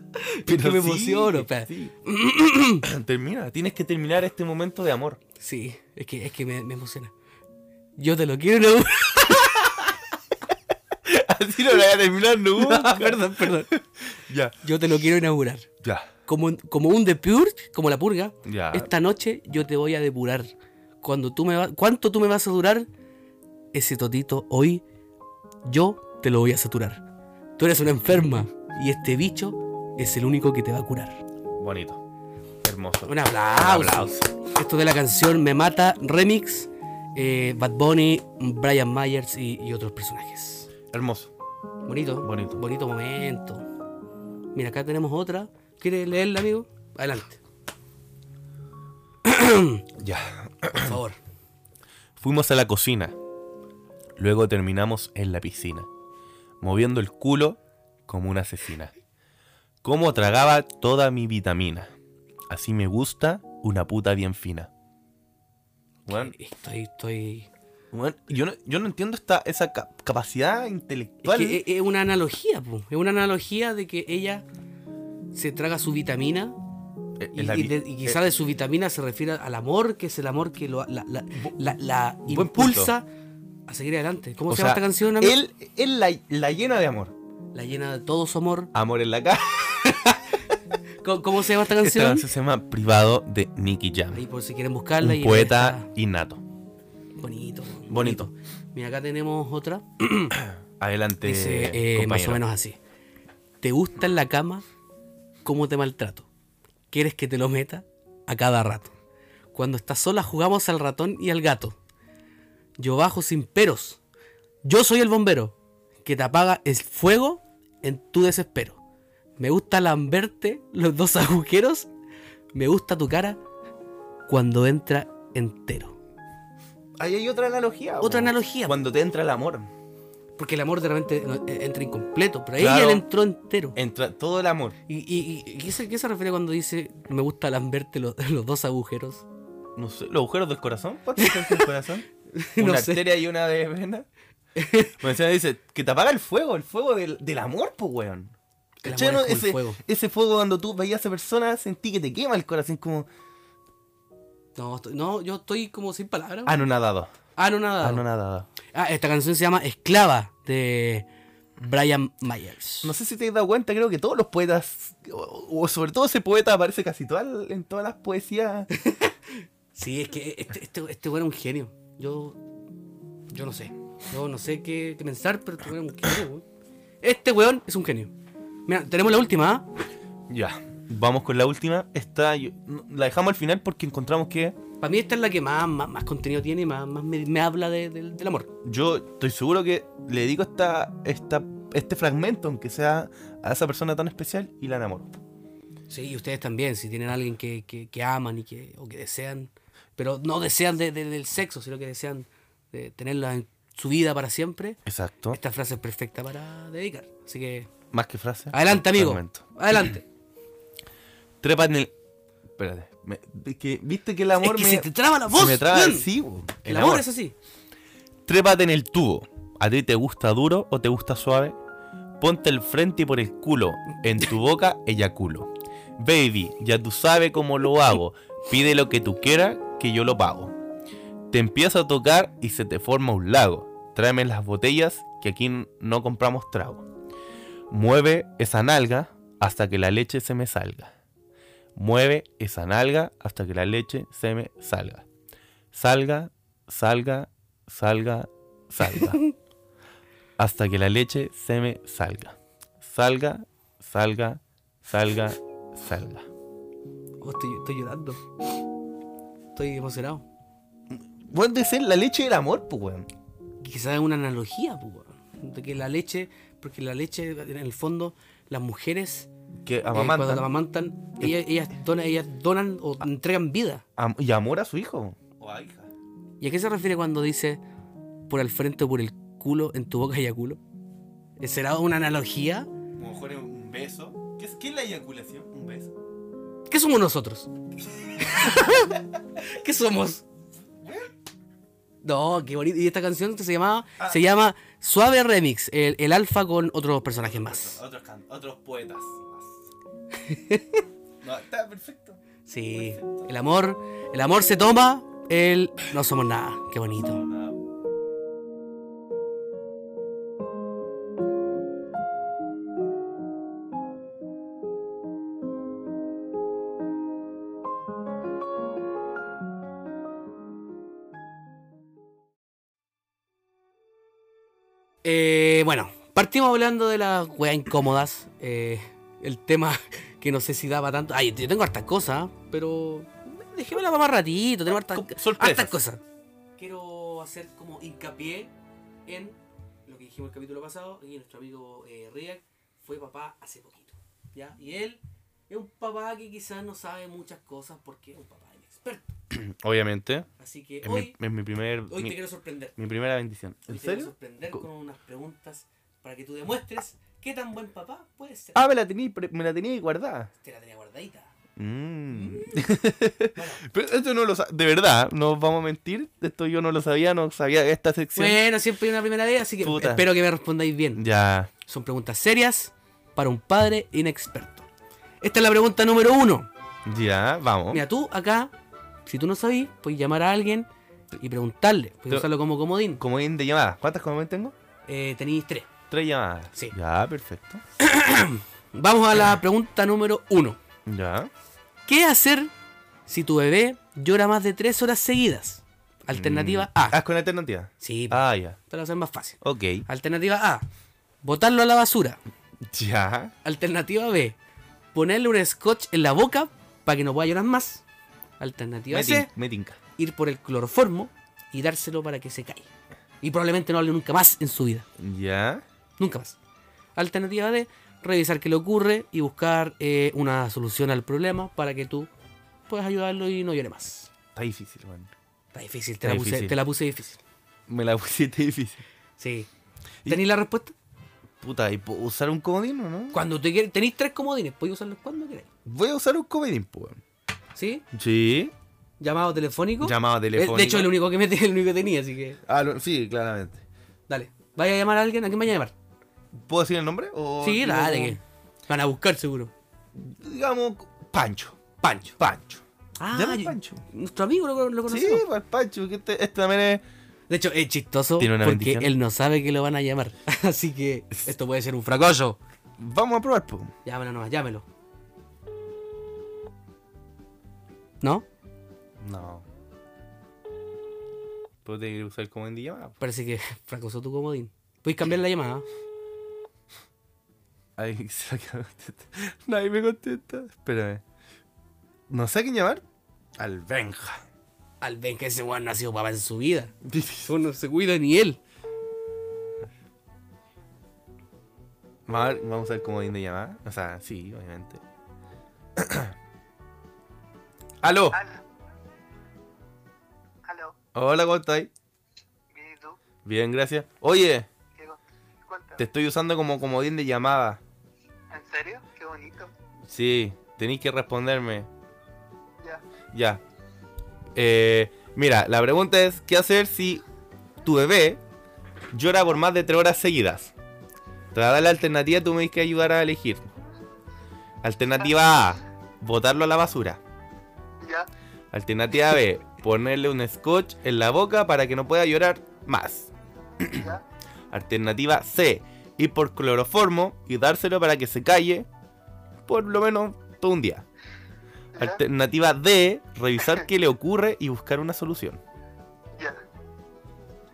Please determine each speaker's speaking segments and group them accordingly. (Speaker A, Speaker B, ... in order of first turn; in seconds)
Speaker A: 0.1-2.9, 5.4-7.1, 8.0-9.9, 12.6-13.7, 14.6-15.7, 16.3-20.5, 21.0-22.9, 23.7-24.8, 25.6-27.0, 27.6-31.2, 33.0-40.7, 41.9-43.6, 44.5-47.4, 49.2-49.8, 50.8-51.2, 66.0-67.5, 71.2-74.5, 75.3-76.5, 77.3-83.0, 83.7-85.4, 87.5-88.7, 89.8-90.3, 91.0-92.3, 94.1-95.9, 97.2-100.4, 101.2-102.8, 103.6-104.6, 105.4-106.3, 106.9-108.9, 109.5-111.8, 112.8-114.0, 114.6-118.8, 119.4-121.9, 122.5-123.4, 124.3-126.0, 128.0-128.8, 130.4-133.8, 134.9-139.2, 141.2-141.7, 142.3-143.0, 144.6-144.9, 148.8-149.8, 154.6-156.6, 157.3-158.0, 158.7-161.1, 161.6-162.9, 168.7-172.4, 173.3-176.4, 177.0-178.1, 178.7-179.7, 184.8-188.5, 195.9-204.8, 205.3-207.7, 208.5-210.0, 214.4-216.1, 216.6-217.3, 248.9-249.3, 257.2-258.2, 259.5-260.2, 263.6-269.3, 269.9-273.8, 276.4-277.6, 278.3-280.6, 281.4-282.7, 286.7-287.5, 288.2-290.2, 292.0-297.8, 300.2-300.8, 302.4-307.2, 325.0-336.0, 336.6-338.5, 339.1-349.1, 350.4-351.2, 351.9-352.8, 353.7-358.6, 360.4-361.3, 362.1-362.7, 363.3-363.6, 368.1-371.0, 371.6-374.6, 375.2-376.5, 377.7-378.5, 379.1-383.0, 384.9-385.7, 387.8-390.6, 391.9-392.5, 393.1-397.0, 397.8-400.6, 401.2-402.2, 403.4-404.4, 404.9-407.8, 408.4-409.3, 410.0-412.7, 413.2-414.9, 416.0-416.4, 416.9-422.1, 422.7-424.1, 425.5-427.2, 429.2-429.5, 430.1-430.7, 433.1-435.5, 437.5-437.8, 439.0-442.4, 444.1-445.7, 447.4-449.5, 451.8-452.1, 453.0-455.2, 457.3-462.4, 463.8-464.6, 473.0-475.6, 484.8-488.4
Speaker B: 0.5-1.9, 2.8-5.2, 11.0-14.6, 15.8-16.1, 18.4-18.9, 31.5-32.0, 32.6-34.3, 40.9-41.3, 42.2-42.6, 50.0-51.0, 52.2-53.1, 54.2-55.9, 56.6-58.9, 59.8-61.9, 62.5-64.7, 66.1-66.3, 67.9-71.6, 77.2-78.2, 82.2-82.9, 84.5-87.1, 88.7-90.0, 91.7-94.2, 95.0-96.4, 97.9-98.3, 100.5-102.4, 127.0-129.7, 132.6-133.0, 133.7-134.8, 139.8-144.1, 145.0-153.1, 156.4-157.1, 157.8-158.5, 162.8-168.7, 180.3-184.6, 188.6-195.1, 204.8-205.4, 207.9-209.4, 211.4-211.9, 212.6-217.1, 218.2-221.6, 222.2-230.5, 231.3-236.8, 237.7-240.9, 241.8-245.0, 245.7-249.2, 250.4-256.3, 260.9-263.1, 269.6-270.4, 274.0-275.9, 282.9-285.9, 290.8-291.1, 297.2-299.7, 301.2-302.2, 302.7-303.2, 307.0-307.6, 334.7-335.8, 349.3-350.3, 350.8-352.2, 352.8-354.6, 358.5-360.3, 361.6-368.4, 369.6-370.1, 370.9-371.5, 376.9-377.8, 383.0-384.5, 385.9-387.6, 390.9-391.3, 396.1-398.6, 399.4-399.9, 402.6-403.3, 408.9-409.8, 415.0-415.6, 424.3-425.1, 426.0-426.6, 427.7-428.8, 431.4-433.2, 435.6-437.0, 437.9-438.5, 439.8-440.9, 442.4-443.6, 446.3-448.2, 449.9-451.6, 452.2-453.8, 454.9-456.8, 458.2-458.9, 462.8-463.7, 469.0-469.4, 471.6-472.9, 477.8-481.0, 482.1-482.8, 483.4-484.2, 486.8-487.3, 492.1-494.8, 495.8-496.1, 497.8-498.2, 500.9-501.7, 503.2-504.5, 505.8-507.6, 509.8-511.7, 513.1-513.4, 514.3-517.0, 517.6-518.2, 518.9-520.5, 521.3-523.4, 524.6-527.0, 528.5-533.9, 534.5-538.7, 539.5-540.8, 541.8-545.4
Speaker C: 498.1-498.4, 500.4-500.8, 502.5-503.0, 504.7-505.8, 508.3-509.5, 527.8-528.1, 533.6-534.0, 541.7-542.0